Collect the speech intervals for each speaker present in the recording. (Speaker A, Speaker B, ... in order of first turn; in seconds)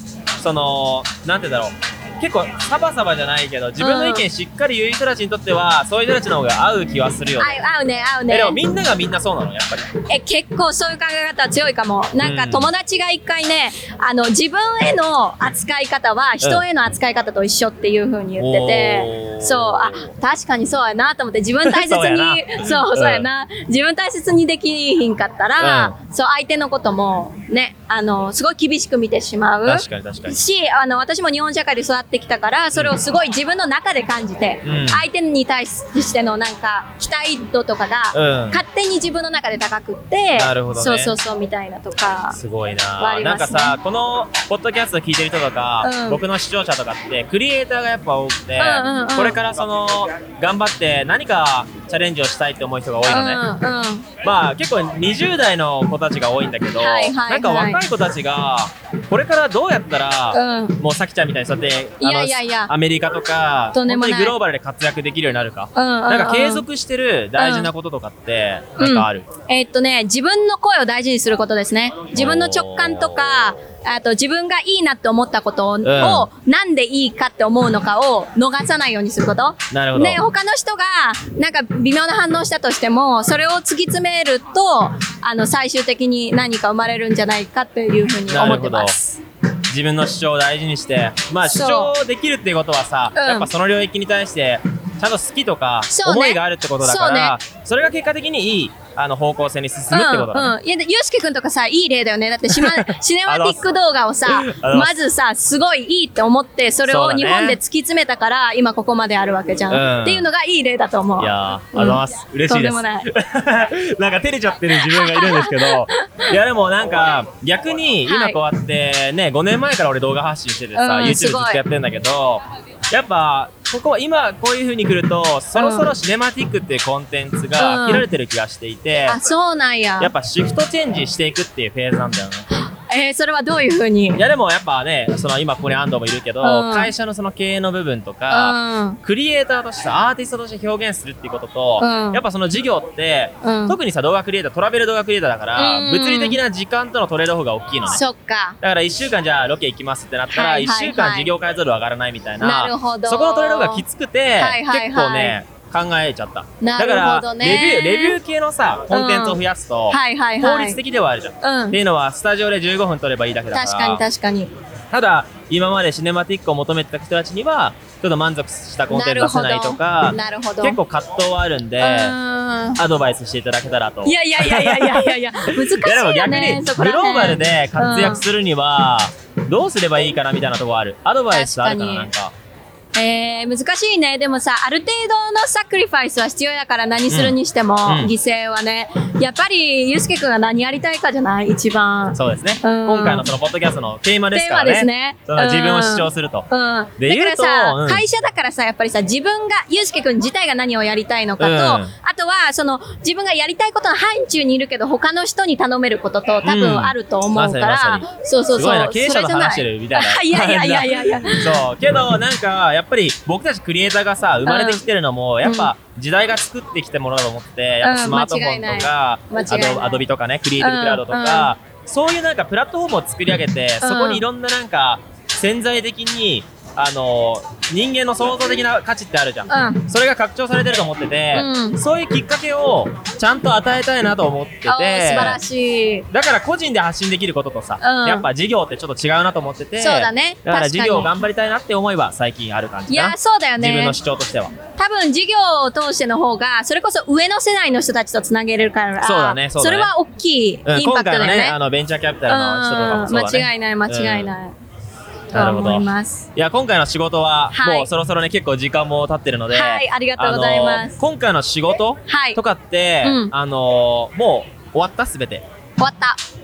Speaker A: 0.4-7.6, 8.3-10.0, 12.2-12.7, 18.4-20.1, 21.6-23.3, 25.6-25.9, 29.7-30.4, 34.6-35.0, 38.1-38.6, 40.4-41.1, 42.3-53.4, 54.2-69.3, 72.1-73.5, 75.8-76.3, 79.7-80.2, 88.3-89.0, 89.7-100.5, 102.5-103.7, 104.3-105.0, 106.9-107.6, 109.7-110.3, 111.2-129.2, 130.0-132.5, 134.2-148.0, 148.6-164.0, 164.9-172.2, 172.8-182.3, 187.1-188.1, 192.1-196.5, 197.0-198.0, 201.4-201.9, 206.4-235.4, 236.1-244.6, 249.0-249.9, 250.7-254.3, 255.3-265.5
Speaker B: 3.8-4.3, 7.4-8.6, 10.1-42.4, 43.0-43.8, 45.8-46.2, 48.6-49.4, 53.1-54.1, 56.8-57.8, 60.3-60.8, 62.0-62.7, 63.7-64.4, 65.8-66.7, 67.4-67.7, 68.8-89.2, 91.5-91.9, 93.2-93.5, 95.9-97.3, 99.9-113.1, 114.8-116.3, 118.1-118.4, 120.8-121.6, 125.5-125.9, 127.6-128.1, 129.1-130.1, 132.6-134.3, 136.4-136.9, 138.3-139.0, 141.8-142.2, 143.4-143.8, 145.6-146.4, 147.9-148.6, 150.3-151.3, 152.4-153.8, 154.4-155.4, 156.6-158.2, 158.9-159.4, 159.9-160.8, 161.4-161.8, 163.5-164.5, 168.9-170.8, 171.8-172.8, 174.1-178.2, 181.3-182.1, 182.9-193.3, 194.3-211.7, 214.4-214.8, 215.4-215.7, 217.8-220.0, 220.6-221.5, 223.8-224.2, 229.5-229.8, 231.3-231.8, 234.7-236.1, 237.8-238.3, 239.8-241.2, 242.9-244.0, 244.8-251.6, 252.3-254.6, 255.3-256.3, 257.5-257.9, 259.5-261.0, 262.1-262.4, 263.0-263.3, 265.8-266.2